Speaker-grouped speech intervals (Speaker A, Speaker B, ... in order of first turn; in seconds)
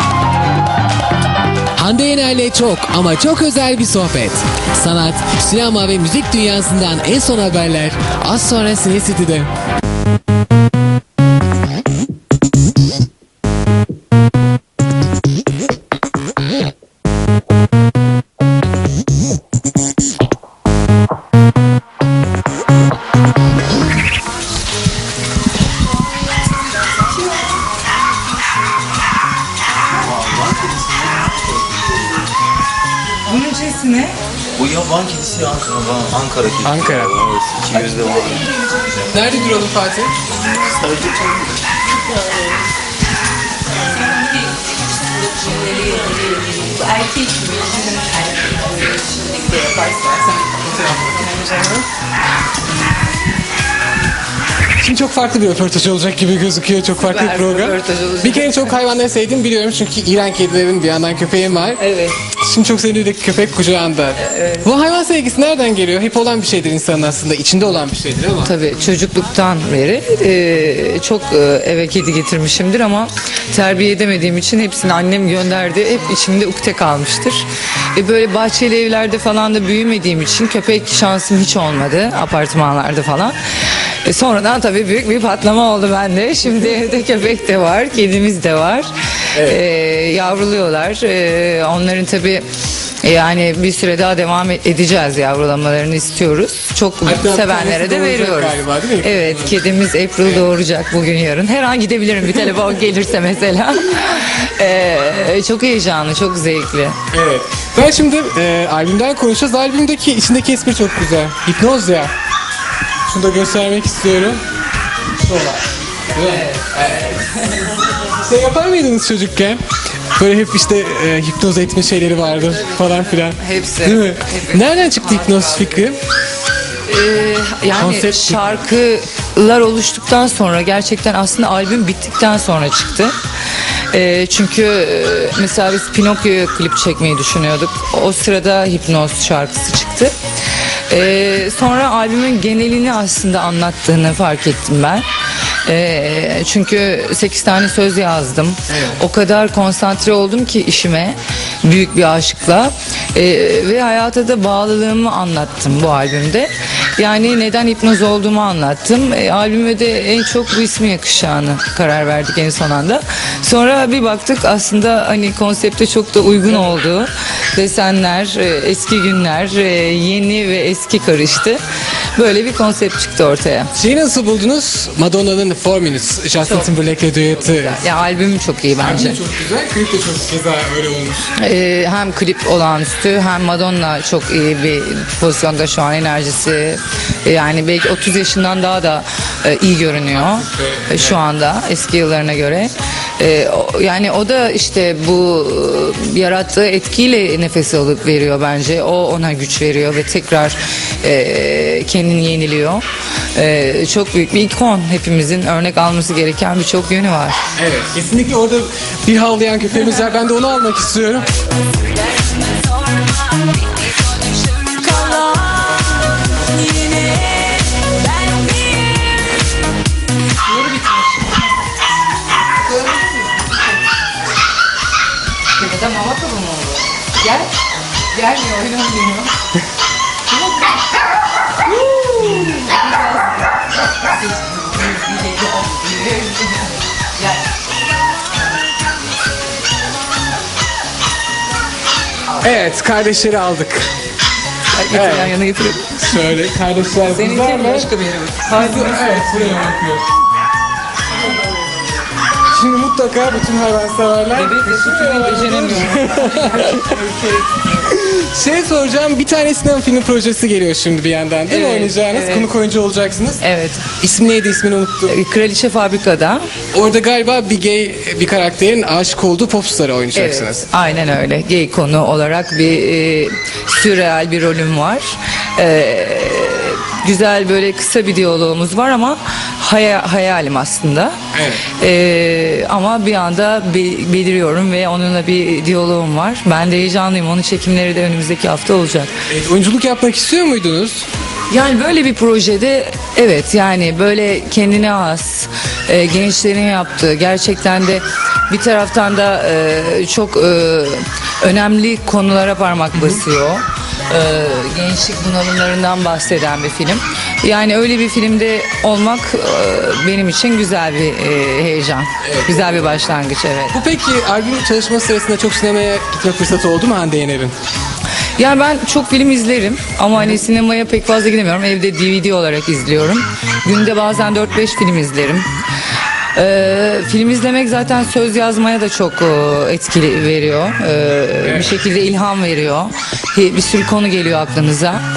Speaker A: 1.8-9.5, 36.6-37.3, 39.0-40.1, 50.5-51.2, 54.8-61.8, 62.4-68.5, 89.3-89.6, 97.0-99.6, 100.2-100.5, 107.1-112.1, 113.1-114.4, 115.1-117.0, 118.1-119.6, 120.2-126.0, 127.8-128.6, 148.7-149.0, 173.8-177.8, 178.8-181.3, 190.1-191.2, 207.6-211.3, 242.4-243.9, 244.9-245.3, 246.0-247.9, 248.5-250.0, 251.2-251.8, 252.5-257.0, 257.8-263.4, 264.0-265.2, 266.7-270.7, 281.3-281.6, 289.3-291.1, 302.9-303.2, 312.2-313.1, 313.7-317.6, 331.4-331.8
Speaker B: 30.0-31.2, 34.6-38.4, 40.6-41.5
Speaker C: 33.2-34.2, 38.2-39.0, 43.7-51.9, 57.0-58.8, 61.8-62.2, 64.2-64.7, 68.5-92.5, 93.0-107.0, 116.2-117.8, 122.5-125.9, 126.9-133.2, 133.9-140.1, 140.9-145.1, 145.7-171.6, 172.2-173.7, 176.4-179.2, 181.4-202.8, 203.3-207.4, 212.2-219.4, 220.3-221.5, 222.6-223.7, 225.6-227.5, 228.1-229.3, 230.3-230.8, 231.7-237.4, 244.7-246.0, 247.1-249.4, 254.3-257.9, 261.5-262.5, 263.4-263.9, 265.1-266.5, 270.1-281.2, 281.8-289.2, 291.5-313.8, 318.4-325.5, 326.4-335.0